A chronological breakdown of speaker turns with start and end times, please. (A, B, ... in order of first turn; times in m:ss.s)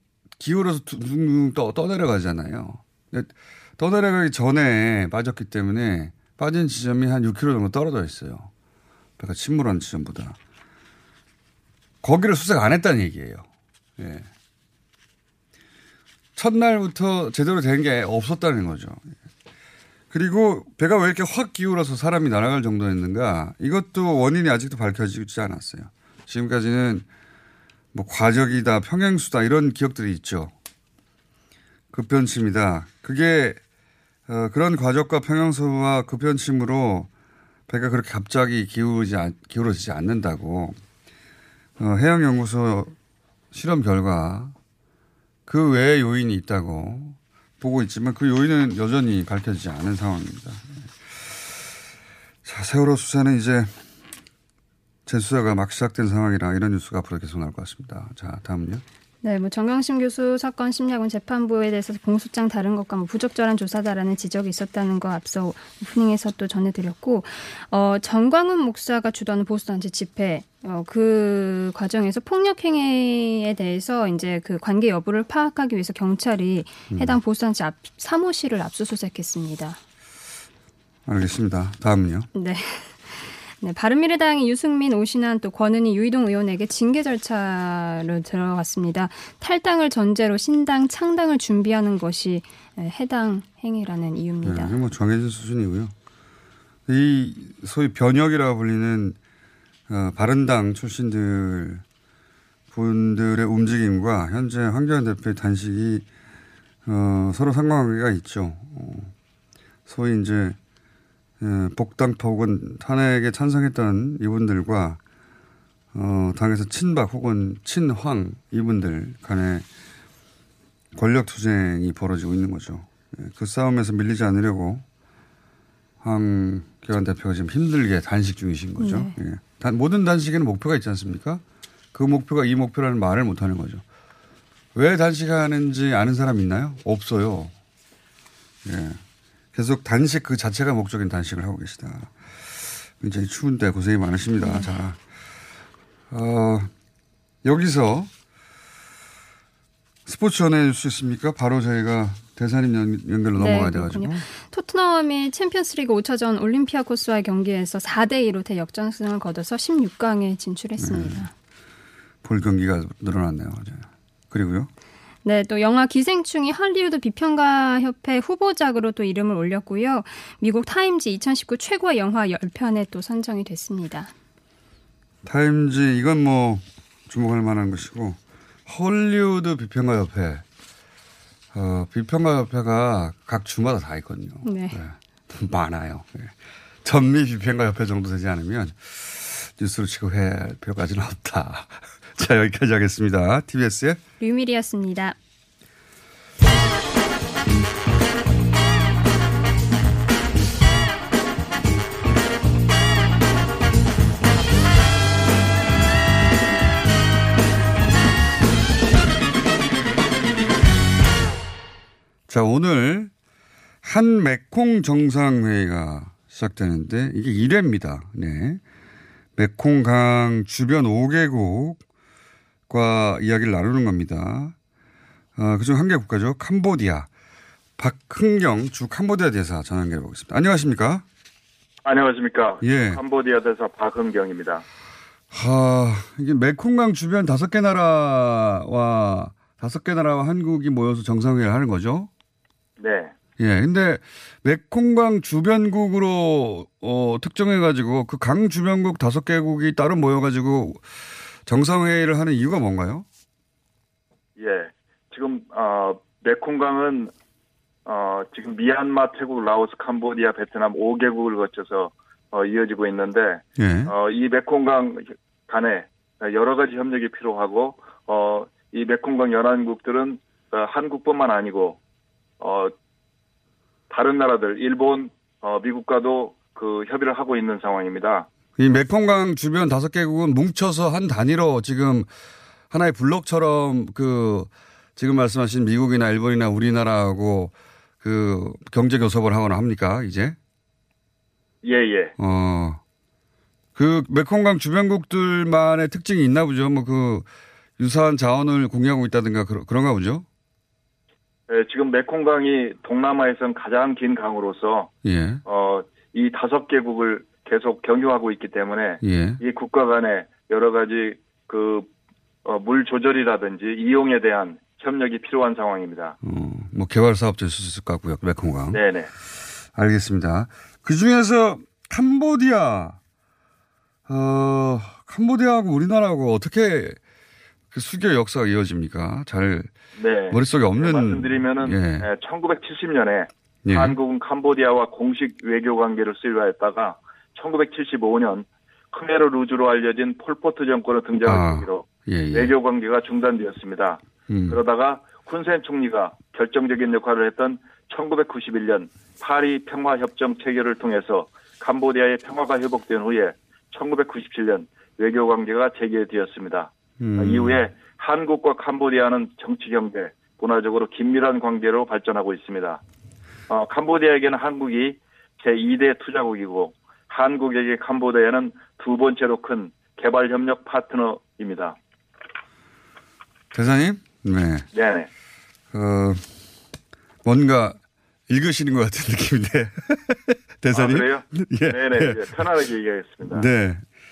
0:00.4-0:08.5 A
0:09.2-0:10.4 A
0:12.0-0:13.5 A
0:14.0-0:14.3 A
0:16.4-0:19.1 A
0:20.1-0:27.0 A
0:27.9-0:30.5 A
0:31.9-0:33.6 A
0:34.3-0:37.1 A
0:37.7-0:40.8 A
0:41.8-0:42.9 A
0:43.5-0:44.5 A
0:45.5-0:51.7 A
0:52.4-0:53.8 A
0:55.0-0:58.8 A
0:59.2-1:19.8 B
1:16.9-1:17.2 A
1:21.0-1:22.3 A
1:22.3-1:34.8 B
1:34.4-1:35.9 A
1:36.9-1:39.2 A
1:39.9-1:41.8 A
1:42.7-1:46.0 A
1:46.8-1:49.1 A
1:49.9-1:50.6 A
1:51.4-1:55.0 A
1:55.9-1:59.6 A
2:00.9-2:04.8 A
2:06.0-2:11.4 A
2:08.8-2:09.1 B
2:11.9-2:13.8 A
2:14.7-2:17.5 A
2:18.6-2:19.0 A
2:19.5-2:25.0 A
2:24.4-2:24.7 B
2:26.1-2:26.7 A
2:27.4-2:28.1 A
2:30.0-2:34.2 A
2:33.4-2:41.3 B
2:40.8-2:41.3 A
2:42.2-2:44.7 A
2:45.2-2:54.1 B
2:55.2-3:00.4 A
3:01.5-3:14.0 A
3:04.4-3:04.8 B
3:14.2-3:15.2 B
3:32.3-3:33.1 A
3:33.8-3:38.6 A
3:39.4-3:41.8 A
3:42.7-3:44.5 A
3:45.4-3:47.1 A
3:47.8-3:51.0 A
3:51.8-3:54.6 C
3:52.6-3:53.0 A
3:55.3-4:02.1 A
4:02.8-4:03.1 C
4:03.4-4:10.9 A
4:11.4-4:13.0 A
4:14.4-4:17.1 C
4:17.8-4:31.8 C
4:23.6-4:23.9 A
4:32.4-4:32.7 C
4:33.9-4:38.3 C
4:38.6-4:42.1 A
4:42.7-4:50.4 A
4:51.6-4:52.1 C
4:52.2-4:52.8 A
4:53.7-5:00.2 A
5:01.5-5:04.9 C
5:05.0-5:05.4 A
5:05.4-5:11.9 C
5:09.0-5:09.4 A
5:12.4-5:16.2 C
5:16.2-5:18.8 A
5:18.7-5:19.1 C
5:19.7-5:23.0 A
5:24.1-5:27.0 A
5:27.7-5:29.7 A
5:30.0-6:02.8 C
5:30.3-5:32.1 A
5:33.6-5:34.0 A
5:41.2-5:42.5 A
5:44.3-5:44.6 A
5:57.0-5:57.6 A
6:03.5-6:11.8 C
6:13.5-6:14.7 A
6:14.7-6:15.1 C
6:15.7-6:16.2 A
6:17.2-6:22.4 A
6:20.7-6:23.4 C
6:23.2-6:23.8 A